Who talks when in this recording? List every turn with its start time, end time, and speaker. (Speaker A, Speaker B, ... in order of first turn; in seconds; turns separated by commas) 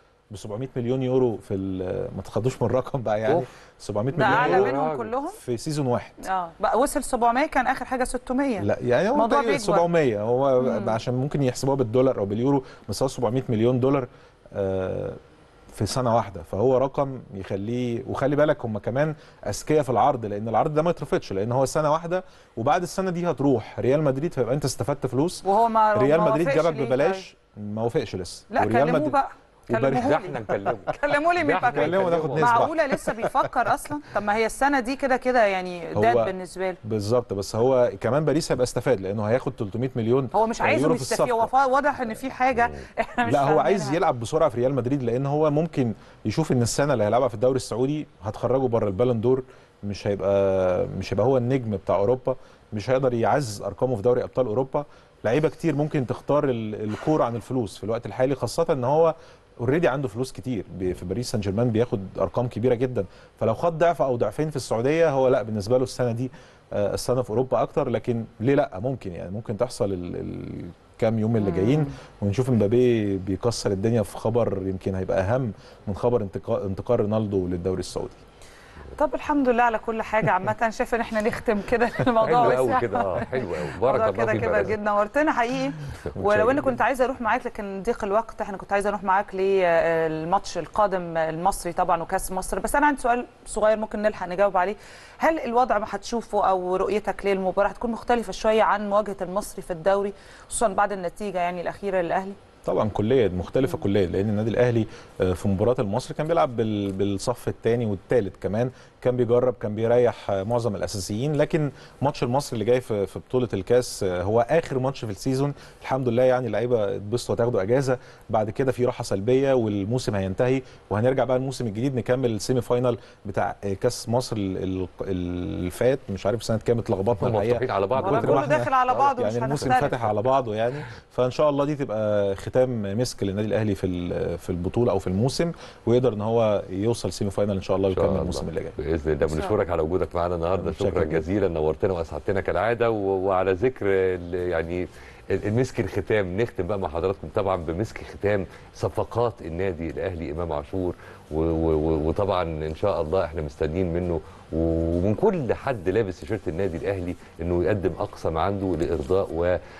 Speaker A: 0.3-6.2, Speaker B: 4.1-5.4, Speaker C: 4.2-5.1, Speaker B: 6.2-9.9, Speaker A: 8.6-15.2, Speaker B: 10.6-11.0, Speaker A: 15.7-29.2, Speaker B: 25.4-27.2, Speaker B: 28.5-36.8, Speaker A: 29.7-30.1, Speaker C: 30.0-32.8, Speaker A: 31.6-33.5, Speaker A: 35.9-41.5, Speaker B: 40.3-44.0, Speaker A: 43.2-78.2, Speaker B: 71.4-71.9, Speaker B: 79.0-102.3, Speaker C: 82.2-84.8, Speaker A: 86.2-86.8, Speaker A: 102.6-138.8, Speaker C: 127.1-130.1, Speaker B: 128.0-130.0, Speaker C: 137.9-159.6, Speaker B: 139.2-139.6, Speaker A: 140.6-141.2